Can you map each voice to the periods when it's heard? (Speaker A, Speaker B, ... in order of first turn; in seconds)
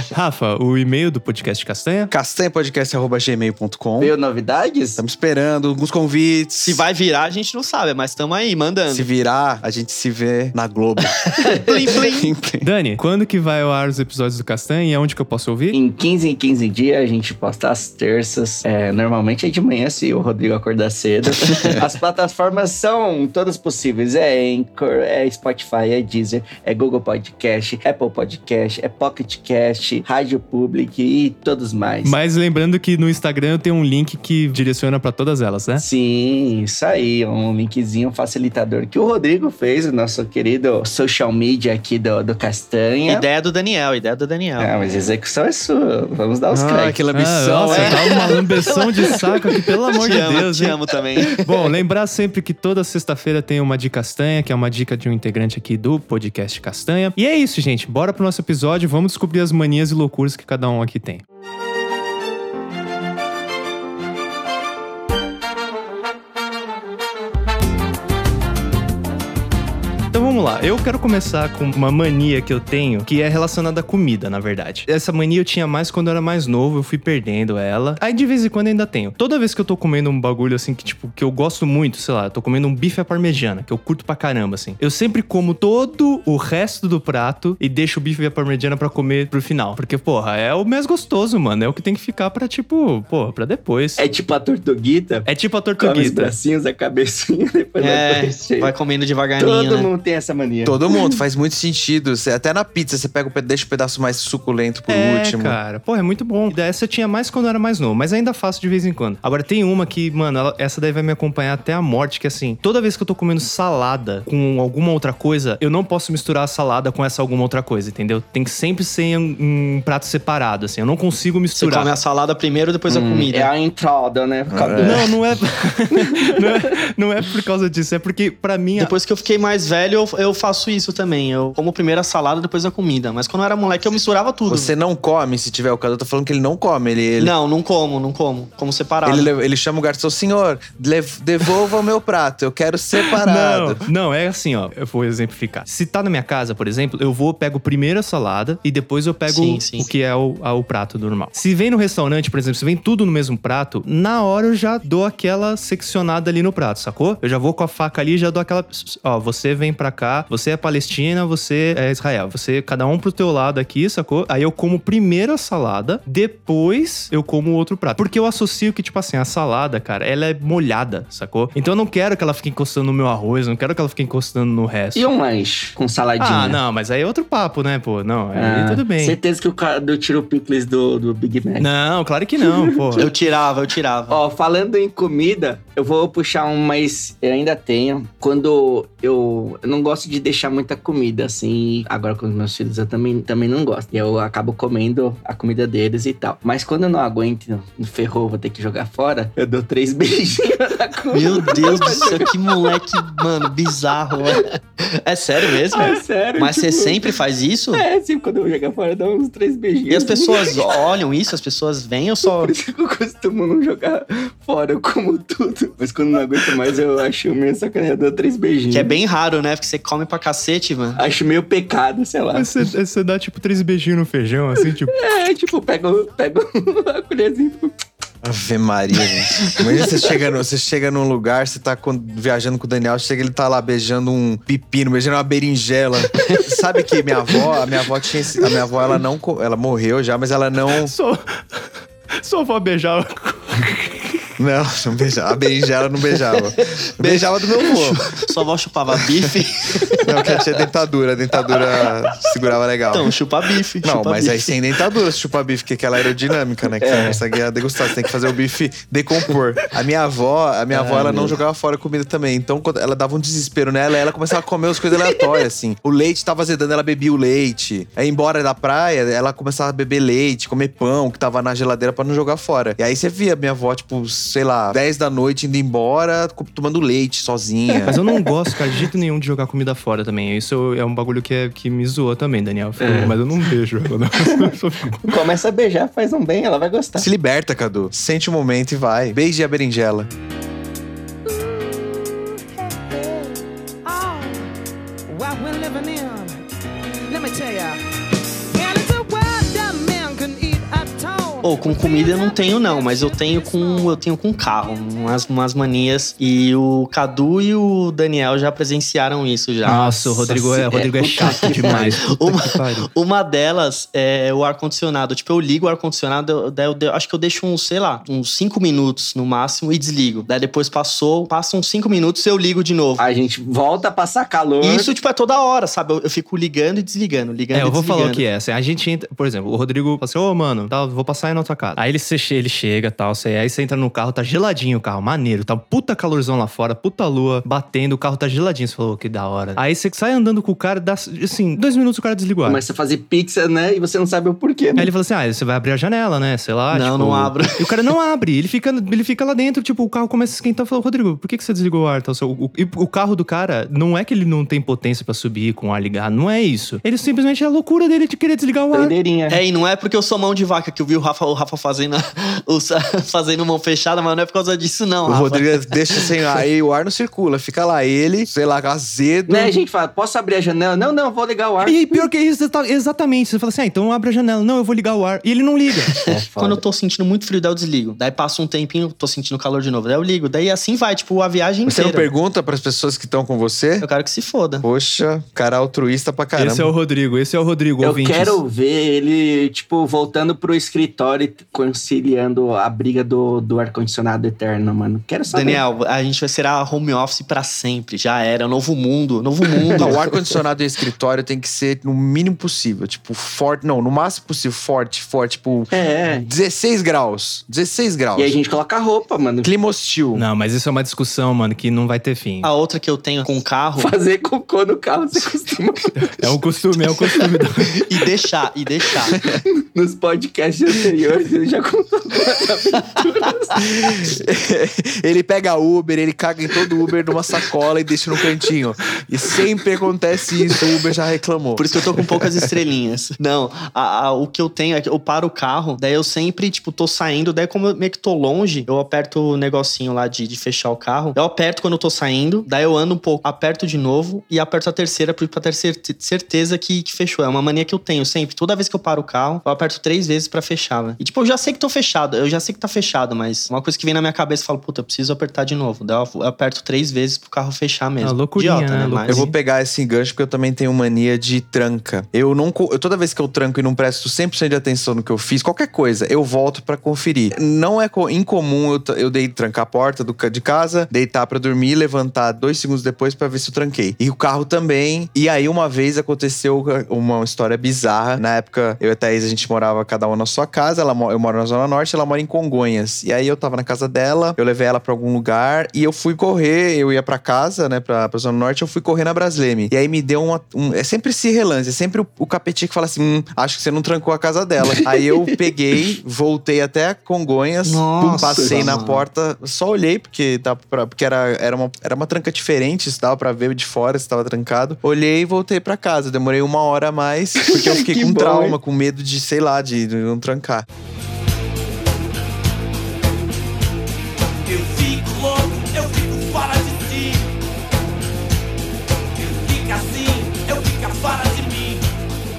Speaker A: 0.1-2.1, 12.6-15.8, 32.0-35.8, 47.1-50.8, 51.3-61.2, 70.1-94.0, 95.3-96.3, 104.9-121.9, 124.8-128.9, 143.0-175.0, 176.2-179.2, 181.6-183.1, 222.3-224.9, 240.8-241.6, 242.2-244.2, 277.9-285.2, 309.6-312.9, 327.5-342.6, 344.8-358.9, 371.6-375.9, 386.4-388.4, 410.1-412.5, 416.2-417.9, 458.0-459.3
Speaker B: 2.1-4.1, 5.0-6.8, 8.9-12.7, 46.5-48.1, 100.6-105.6, 124.5-125.0, 134.5-137.3, 139.0-143.8, 228.2-240.9, 244.4-248.0, 250.0-253.1, 253.8-277.9, 287.0-290.1, 365.0-369.5, 381.6-383.9, 384.6-386.7, 399.8-408.4, 409.4-410.2, 423.6-432.2, 459.1-510.6
Speaker C: 4.0-5.0, 15.7-32.1, 35.8-43.3, 44.6-47.0, 94.0-95.3, 95.8-98.7, 99.4-101.1, 122.9-125.0, 125.9-126.7, 174.9-176.6, 178.3-181.7, 182.4-183.1, 184.1-203.5, 204.1-204.4, 205.4-207.1, 207.7-210.9, 212.2-219.0, 221.0-222.5, 224.9-227.7, 256.8-257.2, 260.8-261.3, 264.9-265.4, 277.7-278.2, 282.8-283.2, 284.2-287.1, 309.6-312.0, 323.0-324.9, 342.4-344.9, 358.7-359.4, 369.3-372.1, 376.0-376.6, 387.8-395.6, 399.4-399.9, 405.7-406.3, 408.1-409.5, 413.8-416.2, 419.1-423.7, 494.7-495.3, 498.2-498.6, 507.4-508.6
Speaker D: 6.6-9.1, 11.4-12.3, 43.0-44.7, 47.7-51.4, 97.8-99.9, 121.5-123.5, 128.8-134.7, 137.2-139.3, 149.3-149.9, 182.9-184.2, 201.1-207.8, 209.9-212.5, 218.7-221.0, 236.2-236.5, 247.0-250.0, 252.9-254.5, 260.7-261.3, 301.4-323.0, 324.6-328.2, 346.7-347.6, 359.3-366.0, 376.3-382.1, 383.8-384.6, 395.3-400.3, 412.4-413.9, 417.9-419.2, 431.6-459.3, 497.6-499.1
Speaker E: 291.2-294.5, 295.1-296.4, 297.1-297.8, 298.5-304.0
Speaker F: 514.5-517.2, 519.2-521.8